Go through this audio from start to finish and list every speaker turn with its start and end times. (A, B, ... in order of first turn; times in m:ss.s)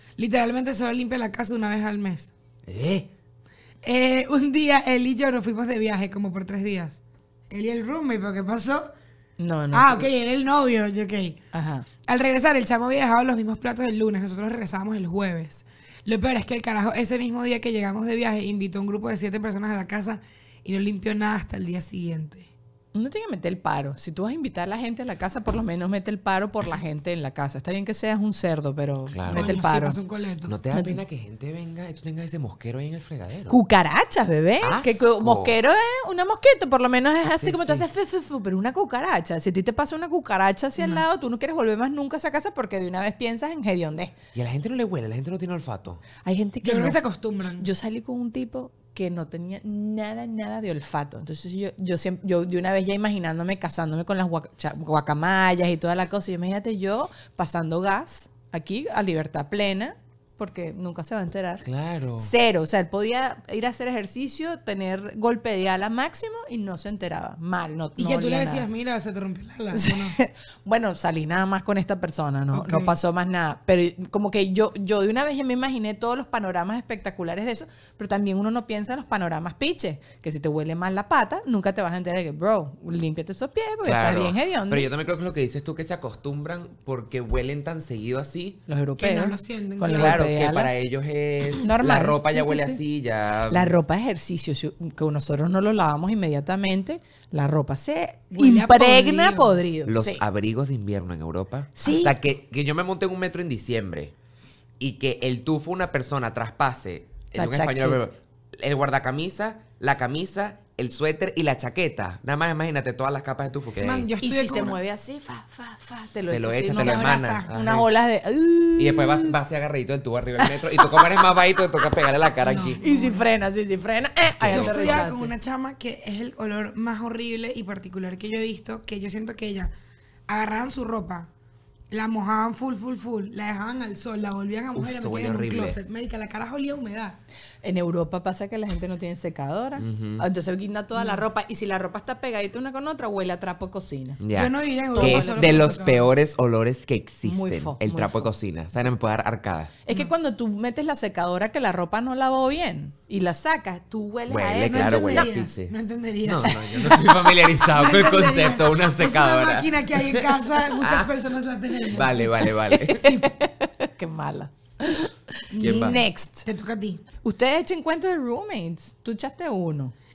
0:00.2-0:02.3 A
0:02.6-0:03.1 B
0:03.8-0:08.9 A
0:09.4-0:10.1 C
0:09.7-0:11.4 A
0:11.5-0:11.9 C
0:12.0-0:22.5 A
0:22.9-0:30.0 C
0:29.1-0:29.5 B
0:29.3-0:30.6 A
0:30.5-0:33.6 B
0:30.7-0:31.0 C
0:33.5-0:44.2 C
0:34.6-0:35.5 B
0:37.3-0:37.8 B
0:40.8-0:41.0 A
0:44.3-0:46.0 B
0:46.2-0:47.0 C
0:46.6-0:47.7 A
0:47.6-1:01.6 C
1:01.6-1:02.3 B
1:02.2-1:08.7 C
1:08.0-1:10.2 A
1:09.7-1:24.9 C
1:12.5-1:13.0 A
1:23.8-1:28.6 B
1:28.7-1:30.7 C
1:29.0-1:30.2 A
1:29.9-1:33.7 B
1:31.6-1:32.8 C
1:33.5-1:40.2 C
1:38.3-1:39.6 A
1:39.8-1:44.1 B
1:41.8-1:42.2 C
1:44.8-1:54.1 B
1:47.4-1:48.0 C
1:53.8-1:54.8 A
1:54.2-1:59.4 C
1:56.3-1:57.9 B
1:56.8-1:57.5 A
1:58.8-2:02.8 B
2:00.4-2:01.4 C
2:02.4-2:03.2 A
2:02.8-2:05.3 C
2:04.4-2:05.1 B
2:04.5-2:09.7 A
2:10.3-2:11.3 A
2:11.9-2:17.2 A
2:14.8-2:15.8 B
2:17.6-2:24.2 C
2:19.8-2:20.2 B
2:20.9-2:21.2 A
2:24.2-2:29.7 B
2:24.3-2:26.1 A
2:24.9-2:25.8 C
2:27.2-2:28.3 C
2:29.8-2:35.3 C
2:34.3-2:35.7 B
2:34.7-2:42.4 A
2:36.2-2:41.1 B
2:41.9-2:43.0 B
2:42.7-2:46.4 C
2:43.0-2:43.3 A
2:45.5-2:47.0 A
2:45.6-2:46.0 B
2:47.2-2:49.9 C